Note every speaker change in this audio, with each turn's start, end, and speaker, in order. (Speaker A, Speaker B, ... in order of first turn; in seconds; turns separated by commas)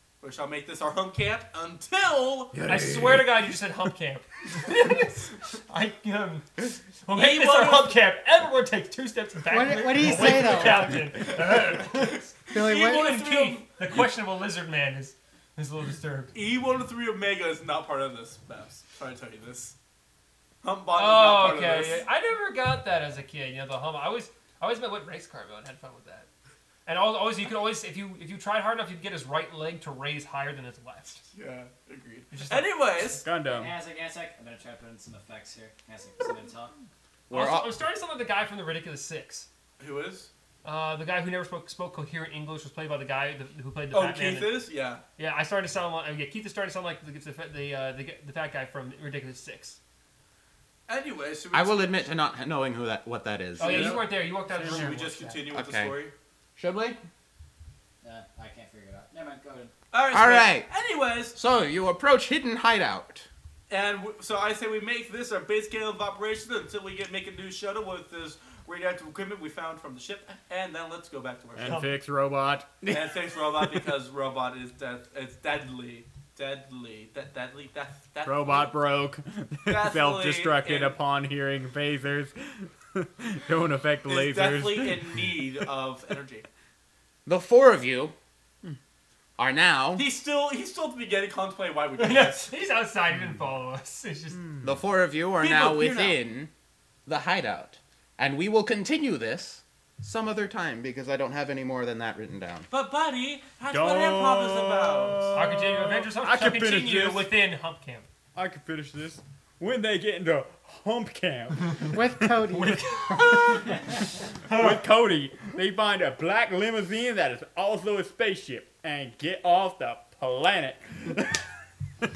Speaker A: 0.2-2.5, Speaker B: 2.5-3.3, Speaker C: 2.7-16.3, Speaker A: 7.1-8.0, Speaker D: 9.5-11.1, Speaker A: 10.0-10.8, Speaker A: 12.5-13.6, Speaker D: 12.5-13.2, Speaker A: 16.3-19.7, Speaker A: 20.6-22.0, Speaker C: 20.9-26.3, Speaker C: 26.9-31.2, Speaker A: 31.3-33.2, Speaker C: 32.3-32.7, Speaker B: 33.0-33.7, Speaker E: 33.4-36.7, Speaker F: 37.3-37.8, Speaker C: 37.3-39.5, Speaker A: 39.8-40.3, Speaker C: 40.6-44.6, Speaker A: 43.9-45.0, Speaker C: 45.2-49.8, Speaker A: 50.9-52.1, Speaker F: 51.5-54.0, Speaker C: 53.6-55.4, Speaker B: 53.6-54.8, Speaker A: 54.5-56.1, Speaker F: 55.5-56.0, Speaker F: 56.6-57.0, Speaker E: 58.0-59.7, Speaker A: 59.9-61.4, Speaker F: 60.1-60.7, Speaker F: 61.3-63.3, Speaker A: 63.7-71.8, Speaker B: 71.6-72.9, Speaker C: 71.6-72.0, Speaker A: 72.8-78.7, Speaker B: 78.2-82.3, Speaker A: 79.7-81.0, Speaker B: 82.9-85.0, Speaker A: 84.0-86.5, Speaker F: 87.2-88.1, Speaker F: 89.4-90.1, Speaker A: 90.0-92.5, Speaker C: 92.0-94.4, Speaker F: 94.6-96.5, Speaker A: 95.4-96.2, Speaker F: 97.0-102.7, Speaker A: 102.7-105.4, Speaker B: 103.7-107.3, Speaker C: 105.3-108.1, Speaker B: 108.3-111.8, Speaker D: 111.9-113.6, Speaker C: 112.5-113.7, Speaker C: 114.5-114.8, Speaker B: 114.5-121.4